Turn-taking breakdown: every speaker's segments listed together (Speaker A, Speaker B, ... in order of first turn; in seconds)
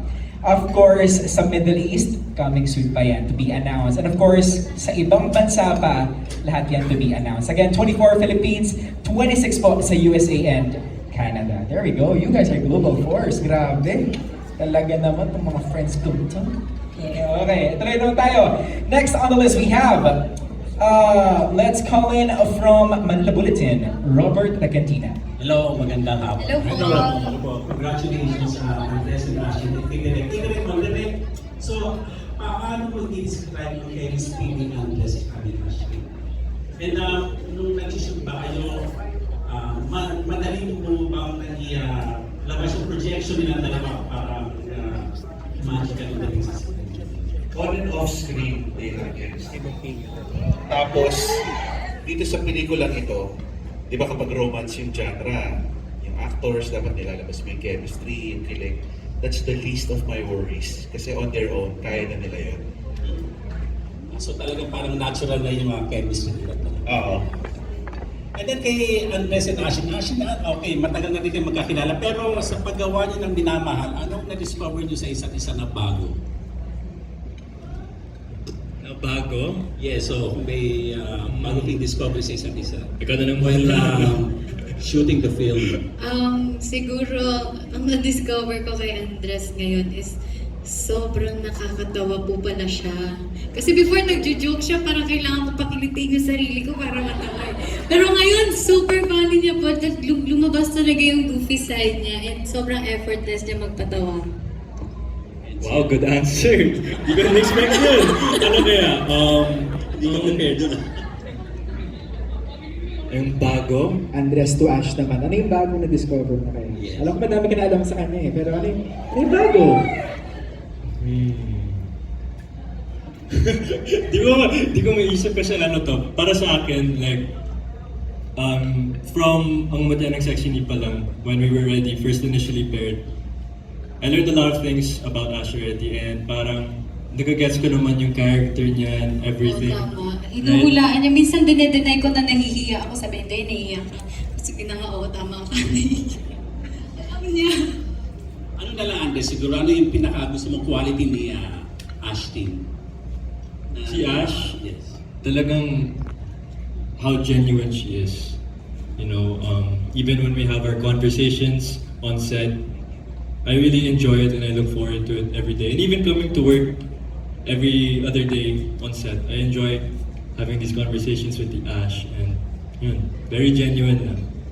Speaker A: 0.4-20.2, 20.8-25.2, 114.1-119.8
Speaker B: 25.4-36.1, 36.8-38.9, 39.4-47.4, 49.5-50.5, 64.1-66.9, 68.4-76.2, 79.8-85.8, 105.4-106.0, 107.6-108.1, 109.9-110.8, 116.8-117.2, 148.6-152.6, 153.7-155.0
Speaker C: 26.4-27.4, 86.0-104.3, 139.4-146.2, 146.9-147.6
Speaker D: 47.5-49.6, 50.7-51.5, 52.0-53.3, 53.9-62.6, 66.9-67.2
Speaker E: 78.8-79.7, 81.2-81.8, 83.0-84.2, 105.6-110.6, 113.1-114.0, 121.0-121.9, 123.3-127.3, 128.4-133.0, 134.0-139.9, 140.4-140.8, 153.8-154.6, 155.2-156.0, 157.0-158.4, 159.0-162.6, 163.4-166.8, 167.4-174.3